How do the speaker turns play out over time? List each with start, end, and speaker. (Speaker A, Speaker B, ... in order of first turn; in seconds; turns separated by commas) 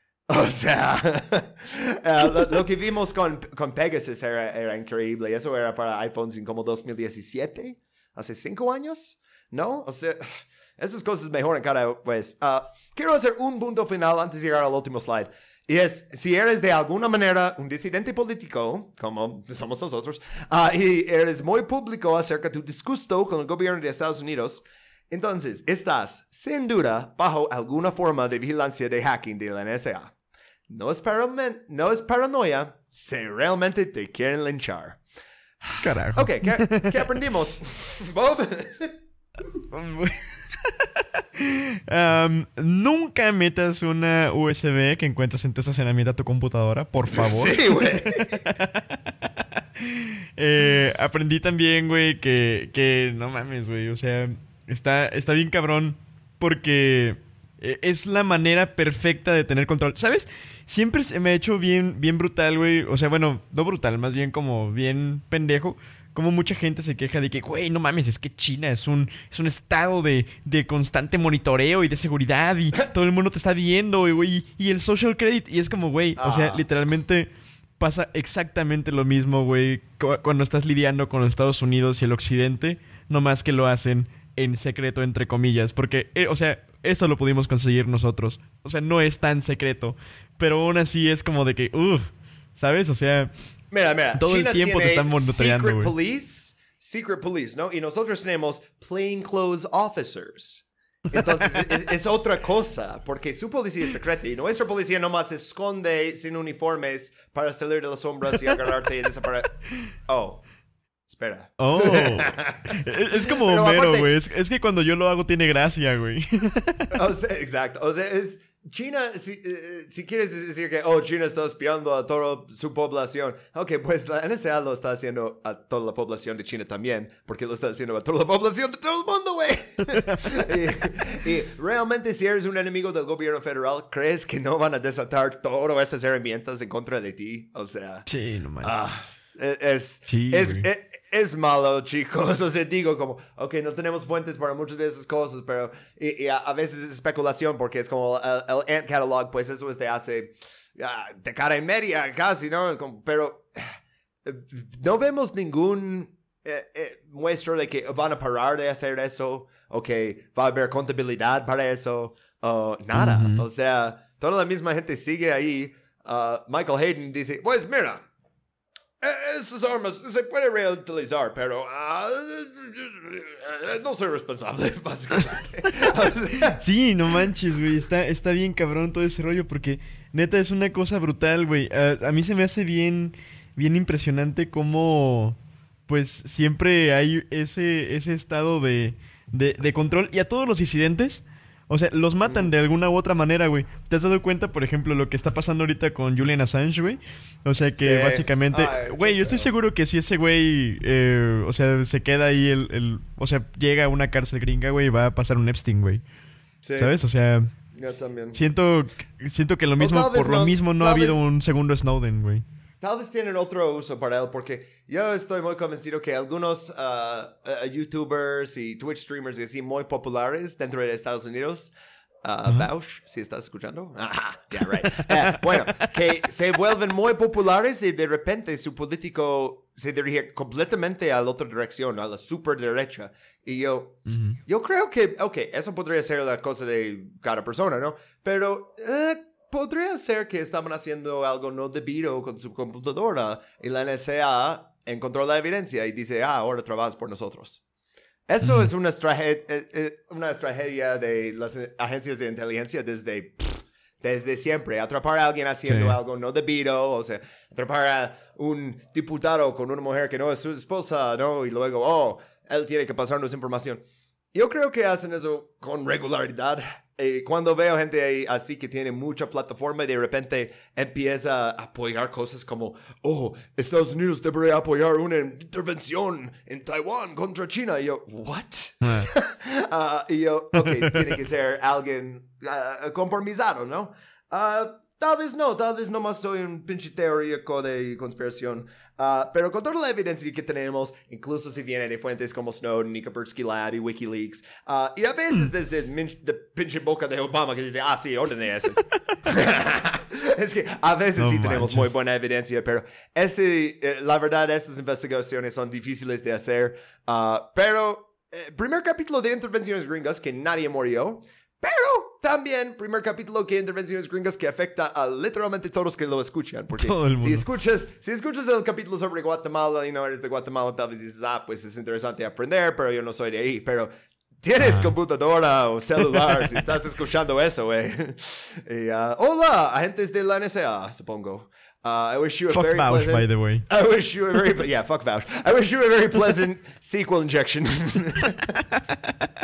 Speaker A: 0.3-30.1, Speaker A: 30.7-35.0, Speaker A: 35.6-38.9, Speaker B: 35.8-37.1, Speaker B: 39.7-93.3, Speaker A: 47.1-48.4, Speaker A: 76.2-76.6, Speaker A: 93.7-109.5, Speaker B: 94.2-95.9, Speaker B: 101.2-101.7, Speaker A: 110.1-110.4, Speaker A: 111.1-114.1, Speaker B: 111.6-116.9, Speaker A: 116.9-138.1, Speaker B: 138.1-138.8, Speaker A: 138.6-168.0, Speaker B: 140.1-140.6, Speaker B: 162.9-163.4, Speaker A: 169.0-176.6, Speaker B: 176.4-185.4, Speaker B: 185.9-206.0, Speaker A: 197.8-199.5, Speaker A: 206.6-206.9, Speaker B: 206.8-207.5, Speaker A: 207.7-208.4, Speaker B: 208.3-212.4, Speaker A: 209.8-211.2, Speaker A: 212.8-221.7, Speaker A: 222.2-247.6, Speaker B: 224.8-225.9, Speaker B: 234.1-234.4, Speaker A: 248.3-263.8, Speaker B: 248.4-248.7, Speaker B: 255.7-256.0, Speaker A: 264.3-323.9, Speaker B: 278.8-279.1, Speaker B: 280.6-280.9, Speaker B: 301.2-301.9, Speaker B: 316.8-317.4, Speaker A: 324.4-338.6, Speaker B: 324.6-324.9, Speaker B: 332.5-333.6